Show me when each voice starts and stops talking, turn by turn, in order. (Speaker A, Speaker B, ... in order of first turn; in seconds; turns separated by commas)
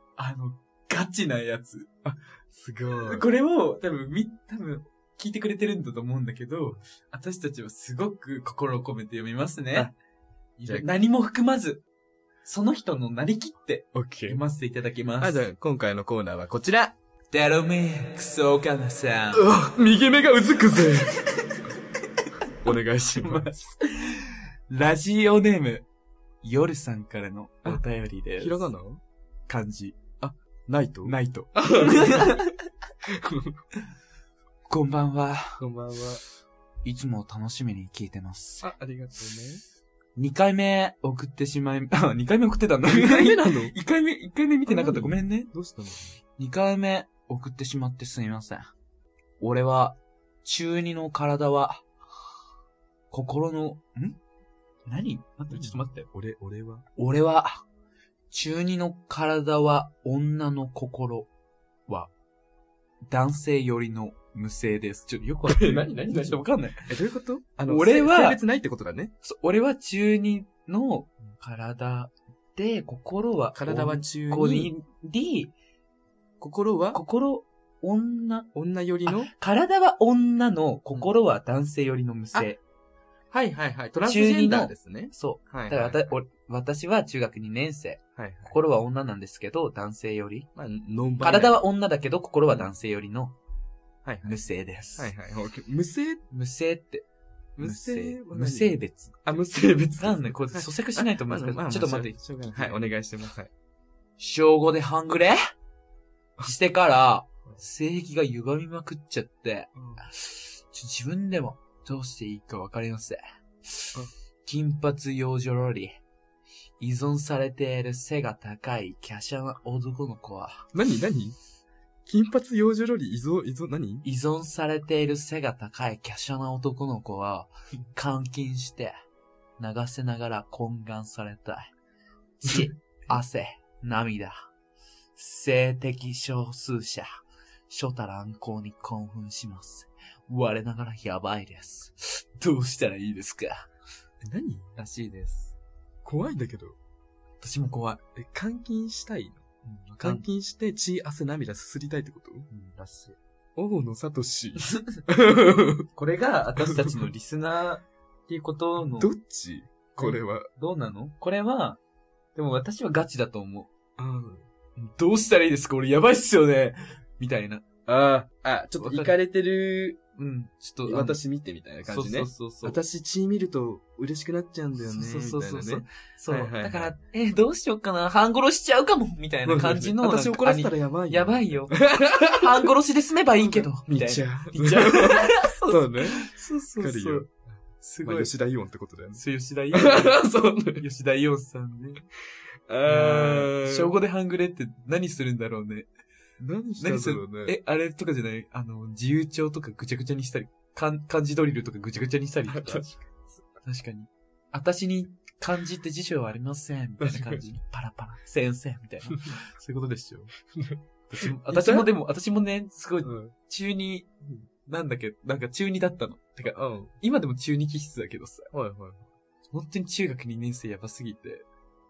Speaker A: 0.2-1.9, Speaker B: 2.0-3.2, Speaker A: 2.9-9.9, Speaker A: 10.6-11.8, Speaker A: 12.4-15.4, Speaker B: 13.9-14.4, Speaker B: 15.2-16.9, Speaker A: 17.3-19.5, Speaker B: 19.3-21.2, Speaker B: 22.6-23.5, Speaker A: 23.2-25.9, Speaker A: 26.4-28.7, Speaker B: 28.4-29.0, Speaker A: 29.5-30.0, Speaker B: 30.2-32.5, Speaker A: 31.0-32.6, Speaker B: 33.0-33.6, Speaker A: 34.7-35.6, Speaker B: 35.6-36.2, Speaker A: 36.8-38.7, Speaker B: 38.6-39.6, Speaker A: 40.2-45.5, Speaker B: 42.8-43.7, Speaker B: 44.7-46.2, Speaker A: 46.4-48.7, Speaker A: 49.4-51.9, Speaker A: 53.1-54.2, Speaker A: 54.9-56.1, Speaker B: 55.5-56.9, Speaker A: 57.0-57.6, Speaker A: 58.3-61.3, Speaker A: 63.1-66.9, Speaker B: 65.5-69.1, Speaker A: 67.7-68.4, Speaker A: 69.2-75.5, Speaker B: 73.5-74.7, Speaker B: 76.4-77.0, Speaker A: 76.9-78.5, Speaker B: 78.5-79.3, Speaker A: 79.1-82.6, Speaker B: 83.3-86.1, Speaker A: 84.0-90.5, Speaker B: 88.2-88.6, Speaker B: 90.6-91.6, Speaker A: 91.2-93.3, Speaker B: 94.0-94.4, Speaker A: 94.2-95.1, Speaker B: 95.0-96.2, Speaker A: 96.3-97.1, Speaker B: 97.6-103.5, Speaker A: 97.6-99.3, Speaker A: 100.0-102.8, Speaker A: 104.2-105.4, Speaker A: 106.4-116.0, Speaker B: 109.8-110.0, Speaker A: 116.8-120.7, Speaker B: 120.7-121.4, Speaker B: 122.1-124.1, Speaker A: 124.0-128.9, Speaker A: 129.6-131.7, Speaker A: 132.4-134.5, Speaker A: 135.2-143.7, Speaker B: 144.2-144.7, Speaker A: 144.8-145.6, Speaker B: 146.0-146.8, Speaker A: 147.4-148.0, Speaker B: 148.2-149.4, Speaker A: 149.6-150.3, Speaker B: 150.0-152.5, Speaker A: 152.5-153.2, Speaker B: 153.6-155.9, Speaker A: 155.9-159.1, Speaker B: 159.0-160.5, Speaker A: 160.0-161.8, Speaker A: 162.3-163.7, Speaker B: 164.0-164.4, Speaker A: 164.8-167.7, Speaker B: 167.9-170.0, Speaker A: 168.8-169.2, Speaker A: 170.2-171.2, Speaker B: 170.8-176.9, Speaker A: 171.8-172.8, Speaker A: 174.8-187.3, Speaker B: 179.4-182.7, Speaker B: 183.4-187.3, Speaker A: 187.8-188.3, Speaker B: 188.0-190.8, Speaker A: 189.2-192.1, Speaker B: 192.7-193.9, Speaker A: 192.8-195.9, Speaker B: 196.4-197.6, Speaker A: 196.8-202.9, Speaker B: 202.5-203.4, Speaker A: 203.6-210.3, Speaker B: 207.0-207.6, Speaker B: 210.4-211.9, Speaker A: 211.1-218.5, Speaker B: 213.0-213.3, Speaker B: 216.4-216.9, Speaker B: 218.5-219.1, Speaker A: 219.5-221.5